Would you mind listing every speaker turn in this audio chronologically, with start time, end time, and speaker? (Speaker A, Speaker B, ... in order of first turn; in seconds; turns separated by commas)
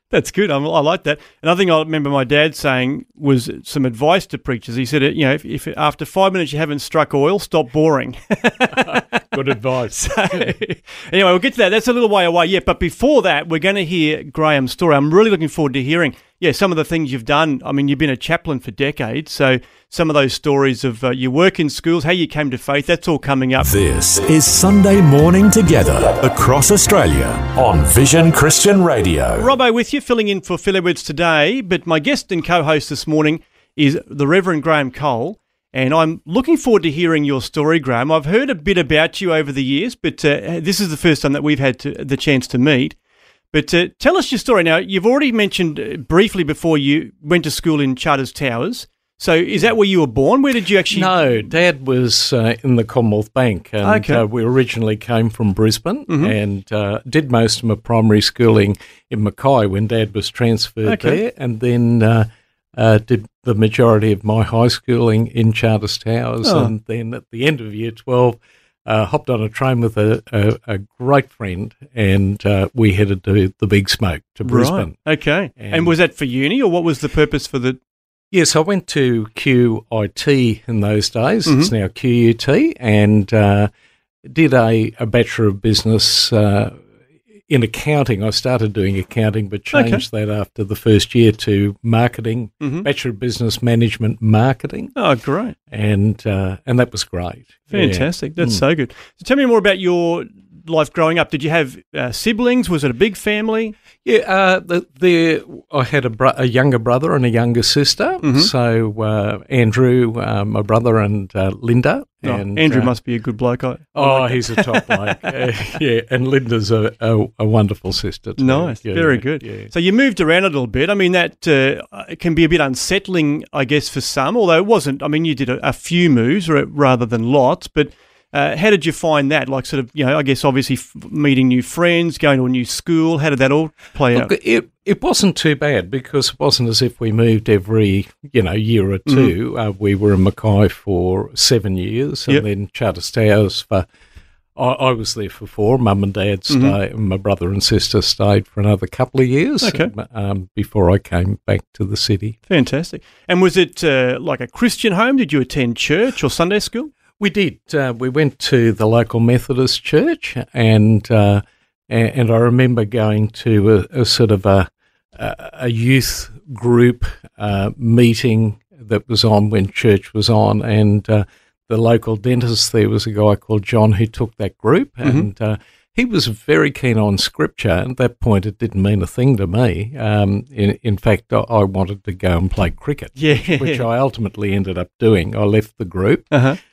Speaker A: 0.1-9.2, Speaker B: 8.7-10.5, Speaker A: 9.9-23.7, Speaker C: 23.6-29.6, Speaker A: 29.4-43.0, Speaker A: 43.5-51.3, Speaker B: 50.9-75.0, Speaker A: 53.8-54.2, Speaker A: 56.1-56.3, Speaker A: 60.9-61.2, Speaker A: 66.4-66.7, Speaker A: 74.5-77.8, Speaker B: 75.6-75.9, Speaker B: 78.3-83.7, Speaker A: 81.5-81.7, Speaker B: 84.2-86.8, Speaker B: 87.5-94.9, Speaker A: 89.7-90.0, Speaker A: 92.6-92.9, Speaker A: 95.0-95.5, Speaker B: 95.7-98.6, Speaker A: 97.7-103.8, Speaker B: 104.0-112.9, Speaker A: 108.2-108.5, Speaker A: 112.2-115.3, Speaker B: 114.0-119.7, Speaker A: 118.4-134.3, Speaker B: 134.1-143.9, Speaker A: 139.1-139.3, Speaker B: 144.6-152.4, Speaker A: 146.5-146.8, Speaker A: 149.6-149.9, Speaker A: 152.5-156.9, Speaker B: 157.2-186.3, Speaker A: 183.2-183.8, Speaker A: 186.3-186.6